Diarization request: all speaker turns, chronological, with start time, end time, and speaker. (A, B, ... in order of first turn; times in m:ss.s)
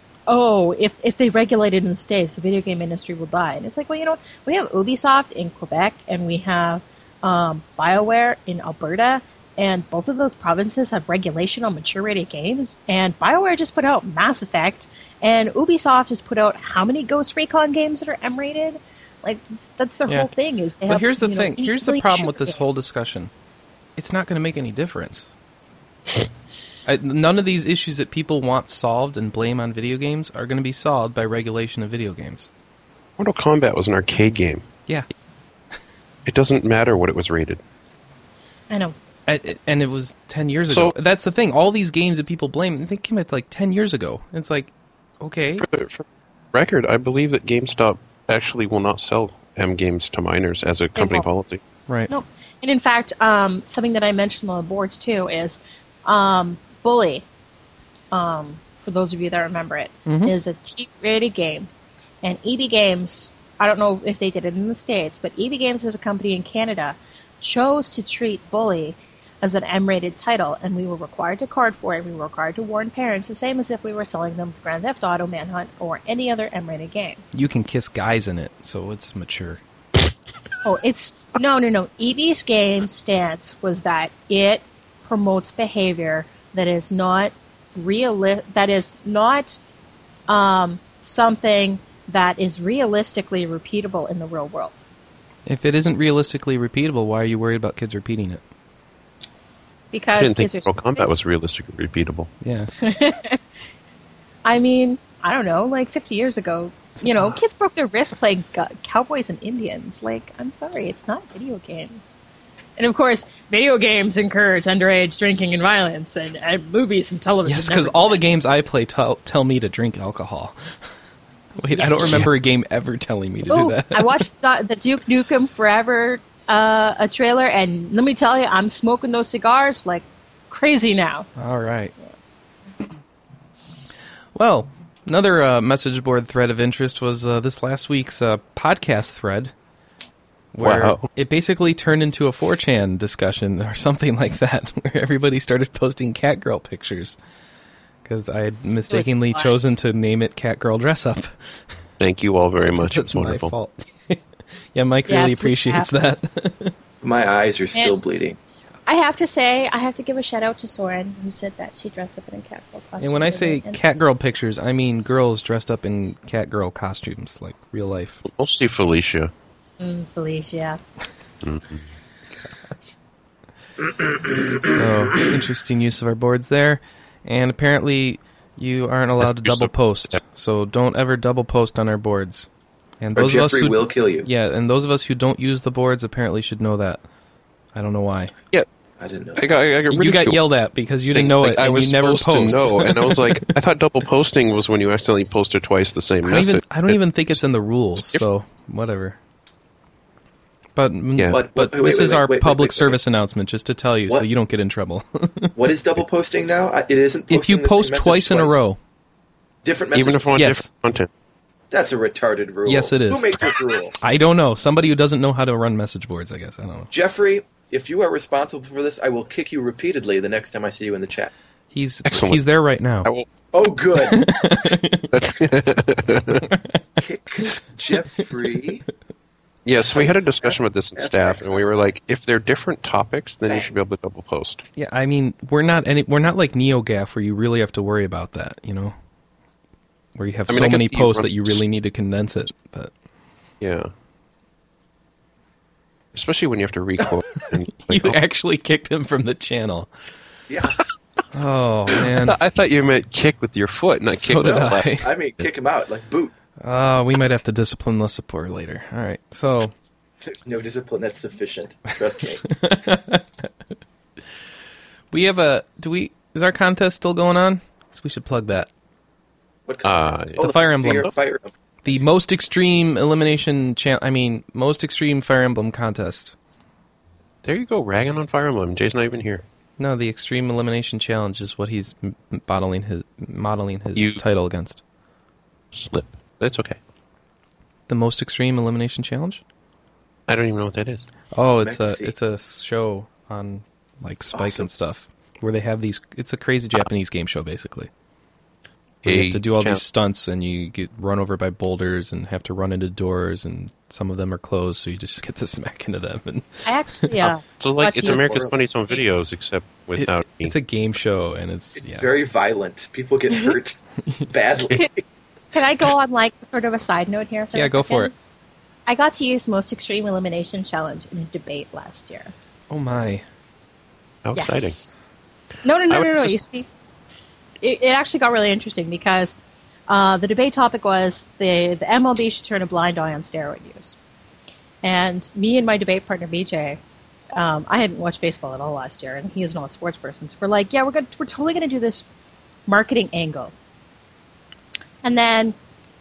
0:00.3-0:22.6 A
0:20.9-0:23.3 B
0:24.0-0:25.3 B
0:26.9-0:32.5 B
0:33.2-0:34.7 C
0:36.3-0:37.6 C
0:38.7-0:39.0 A
0:39.3-0:45.7 B
0:45.6-0:51.6 C
0:51.0-0:51.3 A
0:52.1-0:57.2 A
0:58.1-1:01.7 A
1:00.1-1:00.4 B
1:02.2-1:17.2 A
1:17.3-1:19.6 B
1:20.6-1:29.6 A
1:30.3-1:34.8 A
1:35.5-1:38.4 B
1:39.9-1:41.1 A
1:40.1-1:42.3 C
1:42.4-1:42.7 B
1:42.8-1:43.4 A
1:44.4-1:52.2 A
1:52.8-1:58.3 A
1:57.5-2:00.7 B
2:01.6-2:04.2 B
2:01.7-2:02.2 A
2:03.5-2:11.3 A
2:11.4-2:11.9 B
2:14.4-2:19.5 B
2:20.5-2:27.2 B
2:20.6-2:21.1 C
2:28.0-2:31.4 B
2:28.9-2:29.5 A
2:32.0-2:33.5 C
2:32.6-2:34.2 B
2:34.7-2:36.8 B
2:35.1-2:35.9 A
2:37.0-2:38.4 D
2:38.9-2:43.8 A
2:43.0-2:48.2 B
2:48.2-2:49.3 C
2:49.8-2:50.8 A
2:51.4-2:51.8 C
2:52.4-2:52.9 B
2:54.7-3:02.5 B
2:59.2-3:00.2 C
3:03.0-3:07.0 B
3:03.2-3:04.3 D
3:07.7-3:08.3 B
3:09.0-3:09.4 D
3:09.4-3:10.4 C
3:09.9-3:13.6 B
3:11.1-3:17.0 C
3:16.2-3:19.2 B
3:18.0-3:18.2 C
3:20.8-3:25.6 B
3:21.3-3:23.0 D
3:25.6-3:28.6 D
3:27.3-3:28.8 B
3:29.6-3:30.4 D
3:29.9-3:31.1 C
3:30.3-3:30.7 B
3:31.7-3:34.0 D
3:32.7-3:33.4 B
3:34.0-3:36.9 B
3:36.9-3:41.3 D
3:41.7-3:43.1 B
3:42.1-3:42.4 C
3:43.5-3:44.3 D
3:44.0-3:45.1 B
3:45.1-3:46.5 C
3:46.4-3:46.8 B
3:47.0-3:48.9 D
3:49.6-3:54.6 C
3:49.8-3:51.8 D
3:53.5-3:53.7 D
3:54.8-3:59.0 B
4:00.2-4:02.9 B
4:00.5-4:01.6 C
4:03.6-4:03.9 C
4:06.1-4:08.2 C
4:07.8-4:09.9 B
4:10.5-4:10.8 D
4:11.3-4:12.4 B
4:12.0-4:15.4 C
4:14.2-4:15.1 B
4:14.6-4:16.3 D
4:16.6-4:19.7 B
4:20.2-4:22.5 D
4:22.5-4:23.5 B
4:25.1-4:28.7 B
4:29.7-4:32.0 D
4:29.8-4:30.5 C
4:30.4-4:31.1 B
4:31.8-4:36.4 B
4:37.4-4:39.4 C
4:39.8-4:44.8 B
4:44.0-4:44.2 C
4:45.7-4:46.8 C
4:47.9-4:49.4 B
4:50.3-4:51.0 C
4:51.3-4:57.9 B
4:51.6-4:52.1 D
4:54.3-4:54.7 D
4:59.0-4:59.8 C
4:59.0-5:07.1 B
5:06.7-5:09.0 A
5:07.2-5:10.6 C
5:08.1-5:08.5 D
5:10.0-5:12.1 B
5:11.8-5:15.0 D
5:15.5-5:18.1 A
5:17.5-5:18.1 B
5:18.9-5:22.3 A
5:22.7-5:23.2 B
5:24.2-5:24.8 C
5:24.4-5:25.0 A
5:25.6-5:26.7 A
5:25.9-5:26.4 C
5:27.6-5:29.4 A
5:29.9-5:34.0 A
5:34.8-5:36.8 A
5:37.3-5:42.0 A
5:42.7-5:43.5 A
5:45.0-5:45.6 A